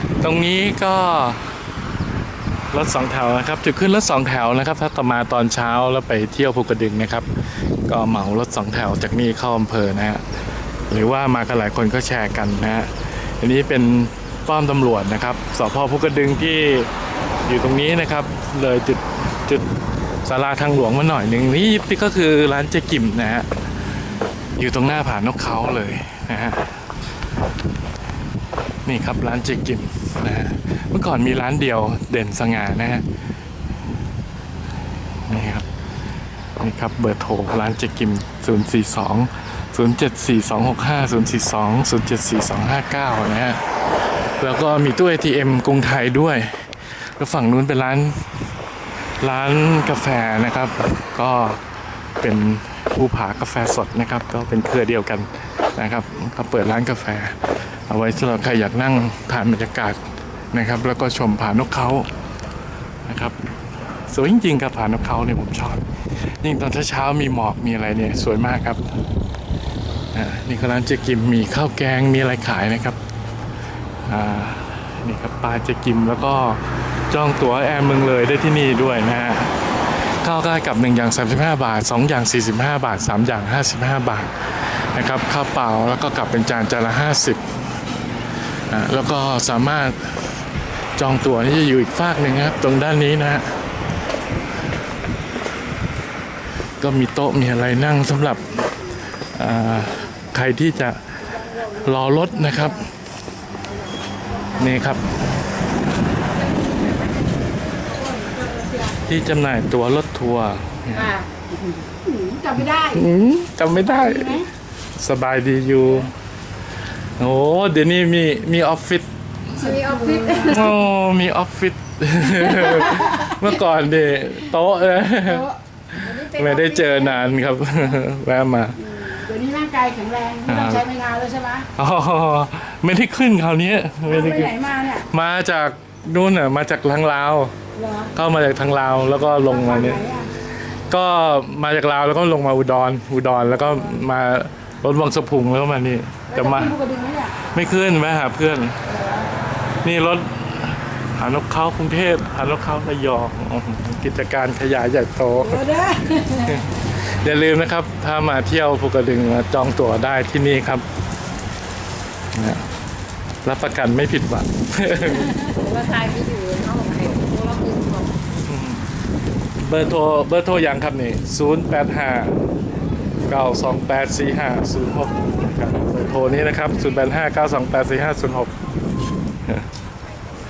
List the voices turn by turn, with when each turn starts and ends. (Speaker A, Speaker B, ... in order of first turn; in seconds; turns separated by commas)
Speaker A: 0.2-1.4, Speaker A: 2.7-10.2, Speaker A: 10.9-16.9, Speaker A: 17.4-19.7, Speaker A: 20.2-23.5, Speaker A: 24.6-26.8, Speaker A: 28.8-33.0, Speaker A: 35.2-35.7, Speaker A: 36.6-43.6, Speaker A: 44.3-48.3, Speaker A: 49.2-51.6, Speaker A: 52.2-62.1, Speaker A: 63.0-63.4, Speaker A: 64.1-68.9, Speaker A: 70.1-73.0, Speaker A: 74.0-87.5, Speaker A: 88.7-90.4, Speaker A: 91.0-93.6, Speaker A: 96.8-98.6, Speaker A: 99.2-102.9, Speaker A: 104.5-105.1, Speaker B: 108.1-108.8, Speaker A: 109.0-111.1, Speaker B: 111.0-113.1, Speaker A: 112.6-116.1, Speaker B: 114.0-114.4, Speaker A: 117.2-119.6, Speaker B: 119.5-120.6, Speaker C: 119.6-120.4, Speaker A: 120.3-129.0, Speaker B: 128.8-131.7, Speaker A: 130.4-130.9, Speaker A: 131.7-137.6, Speaker B: 134.1-135.1, Speaker B: 137.8-138.1, Speaker A: 138.1-140.1, Speaker B: 139.5-140.3, Speaker A: 140.9-146.8, Speaker B: 146.4-147.4, Speaker A: 147.3-148.8, Speaker A: 149.8-160.8, Speaker B: 155.6-156.5, Speaker A: 162.3-162.7, Speaker A: 163.4-165.5, Speaker C: 165.5-168.2, Speaker A: 168.4-168.8, Speaker A: 169.6-172.4, Speaker A: 173.3-178.5